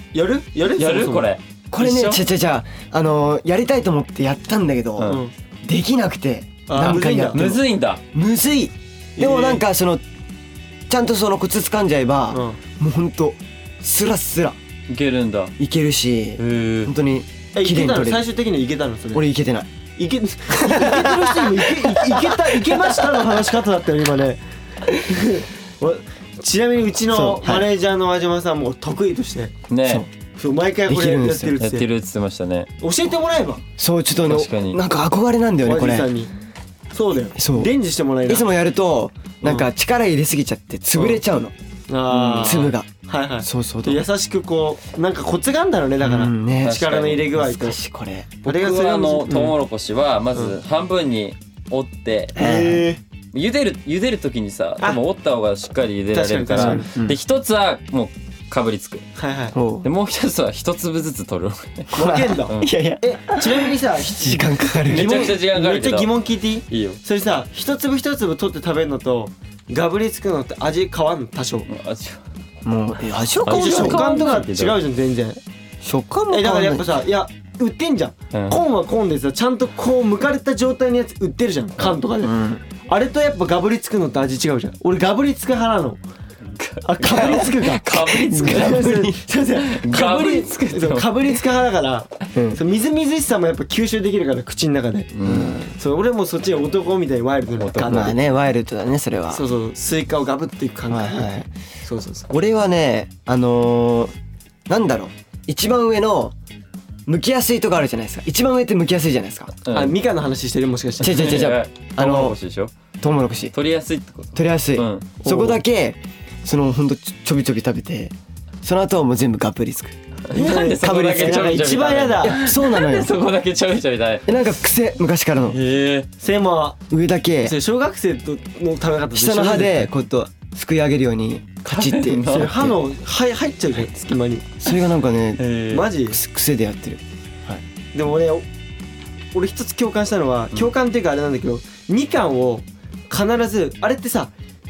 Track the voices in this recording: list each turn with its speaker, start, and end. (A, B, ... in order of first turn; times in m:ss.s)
0:00.1-0:01.3 A
0:00.7-0:02.2 B
0:01.7-0:10.0 C
0:05.0-0:05.3 A
0:06.7-0:07.4 A
0:06.8-0:08.0 B
0:09.2-0:09.6 A
0:10.9-0:14.6 C
0:12.3-0:12.6 A
0:14.9-0:15.5 B
0:15.6-0:18.2 C
0:16.4-0:16.9 B
0:17.5-0:19.2 A
0:19.1-0:19.7 C
0:20.0-0:29.5 A
0:20.6-0:23.2 C
0:27.1-0:27.7 C
0:29.7-0:30.0 B
0:29.8-0:30.1 C
0:30.3-0:31.9 A
0:30.9-0:31.6 C
0:31.6-0:32.7 B
0:32.8-0:33.6 A
0:33.8-0:36.1 C
0:34.2-0:34.8 B
0:35.6-0:36.3 A
0:36.9-0:38.5 A
0:37.3-0:37.7 C
0:38.3-0:41.5 C
0:39.4-0:39.7 A
0:40.9-0:41.2 A
0:41.9-0:47.8 A
0:42.1-0:42.6 B
0:42.4-0:42.9 C
0:43.4-0:44.0 C
0:46.0-0:46.8 C
0:46.6-0:47.3 B
0:47.4-0:48.4 C
0:48.4-0:49.6 A
0:48.4-0:52.4 B
0:52.3-0:53.0 A
0:52.4-0:52.9 C
0:53.3-0:59.0 B
0:56.1-0:56.9 A
0:56.6-0:57.2 C
0:59.2-0:59.5 A
0:59.5-0:59.9 C
0:59.8-1:02.7 B
1:01.9-1:11.7 A
1:02.0-1:05.3 C
1:04.9-1:06.1 B
1:06.7-1:07.0 B
1:11.7-1:12.2 B
1:12.6-1:14.4 C
1:13.4-1:14.8 B
1:13.5-1:15.4 A
1:15.8-1:16.9 C
1:16.3-1:26.0 A
1:18.3-1:18.6 B
1:22.2-1:22.6 C
1:26.5-1:29.0 B
1:26.8-1:35.1 A
1:27.0-1:29.2 C
1:29.6-1:31.4 B
1:32.3-1:32.6 C
1:35.1-1:35.6 B
1:35.2-1:35.7 C
1:35.7-1:38.2 A
1:37.6-1:38.1 B
1:37.8-1:39.4 C
1:39.3-1:41.3 A
1:40.9-1:41.5 C
1:41.8-1:42.3 A
1:42.3-1:44.1 C
1:44.7-1:46.3 C
1:47.1-1:49.5 C
1:49.6-1:50.0 B
1:49.7-1:51.5 A
1:51.0-1:52.4 C
1:51.0-1:52.7 B
1:53.0-1:53.5 C
1:53.5-1:55.4 B
1:54.3-2:00.0 C
1:55.2-1:55.6 A
2:00.3-2:04.4 B
2:00.3-2:02.4 A
2:00.5-2:01.6 C
2:02.2-2:03.1 C
2:04.2-2:05.6 C
2:05.5-2:06.1 B
2:06.2-2:06.8 A
2:06.9-2:07.5 C
2:07.4-2:09.9 A
2:09.1-2:12.8 C
2:11.7-2:12.6 B
2:12.3-2:14.5 A
2:14.6-2:15.5 C
2:15.4-2:15.9 B
2:15.7-2:16.2 A
2:16.0-2:17.6 C
2:17.9-2:18.4 A
2:19.3-2:24.3 A